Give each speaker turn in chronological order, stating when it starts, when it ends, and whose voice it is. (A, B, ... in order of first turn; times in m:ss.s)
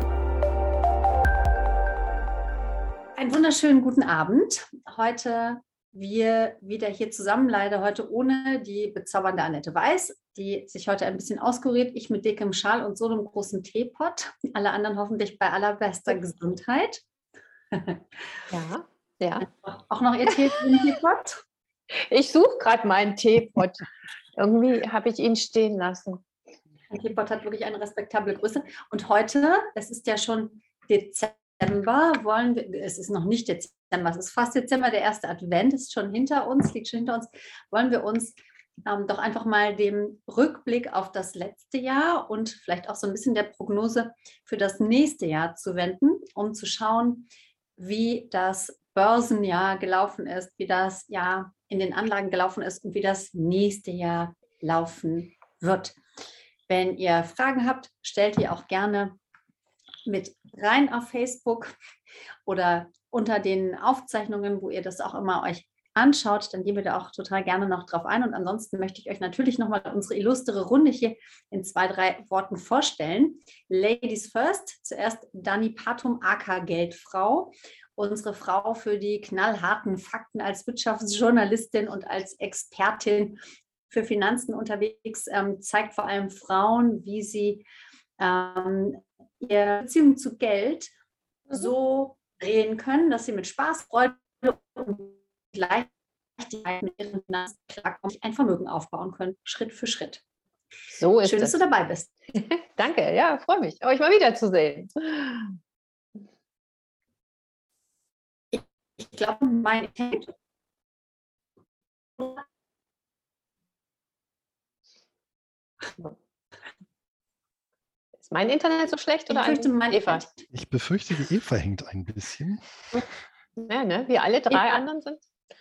0:03.2-0:17.0 A
0:17.7-0:18.0 A
0:18.5-0:19.5 B
0:19.6-0:21.4 A
0:22.1-0:23.8 B
0:24.4-0:26.2 B
0:26.9-0:56.0 A
0:56.7-0:59.2 A
1:00.1-1:01.7 A
1:02.5-1:27.6 A
1:28.2-1:30.9 A
1:31.5-1:40.2 A
1:40.9-1:41.6 B
1:41.2-1:42.1 A
1:42.3-1:45.5 B
1:48.5-1:50.3 A
1:52.2-1:52.4 A
1:58.2-2:00.2 B
1:59.3-2:00.4 A
2:00.5-2:02.6 C
2:03.6-2:05.2 B
2:04.5-2:04.8 A